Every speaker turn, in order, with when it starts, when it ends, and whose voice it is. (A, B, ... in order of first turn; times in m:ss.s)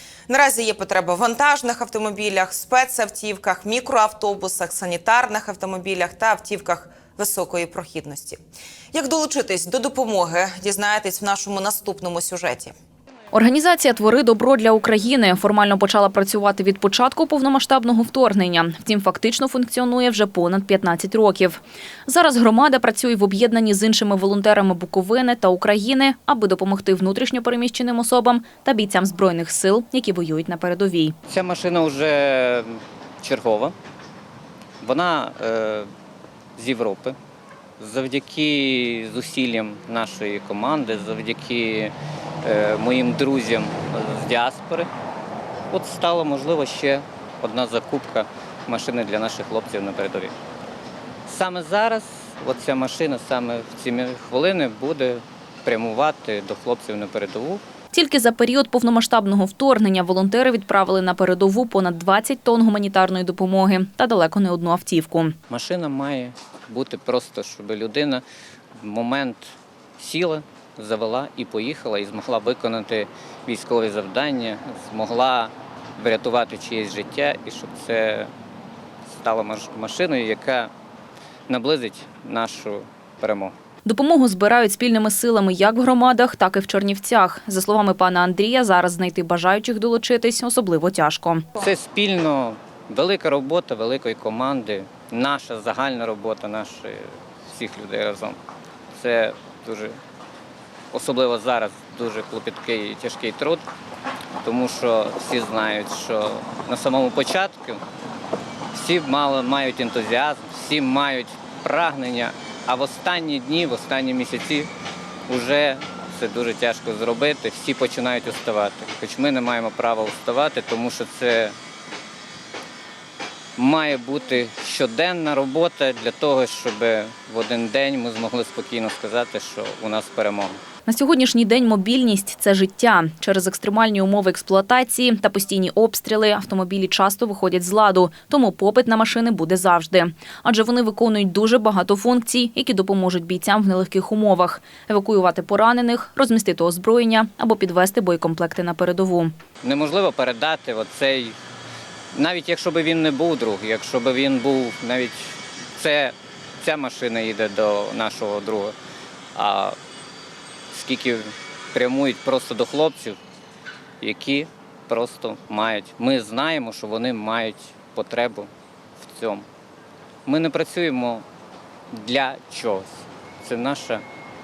0:00.3-0:08.4 A
0:08.9-0:12.7 A
0:13.3-0:31.2 B
0:31.3-0:33.8 C
0:34.8-0:35.9 C
0:36.6-0:37.2 C
0:37.8-0:41.9 C
0:42.4-0:44.9 C
0:45.7-0:50.3 C
0:51.3-0:57.6 C
0:57.9-1:05.4 B
1:05.5-1:08.2 C
1:08.8-1:18.3 C
1:19.1-1:20.7 C
1:21.5-1:23.5 C
1:23.8-1:31.5 B
1:31.6-1:38.4 C
1:39.0-1:40.0 C
1:40.9-1:43.6 C
1:44.4-1:47.8 C
1:48.7-1:54.7 C
1:55.3-2:01.6 C
2:03.6-2:10.6 C
2:10.9-2:29.3 B
2:29.6-2:31.4 C
2:32.1-2:38.8 C
2:39.4-2:39.8 C
2:40.7-2:43.2 C
2:44.0-2:49.5 C
2:50.3-2:51.2 C
2:51.9-2:54.0 C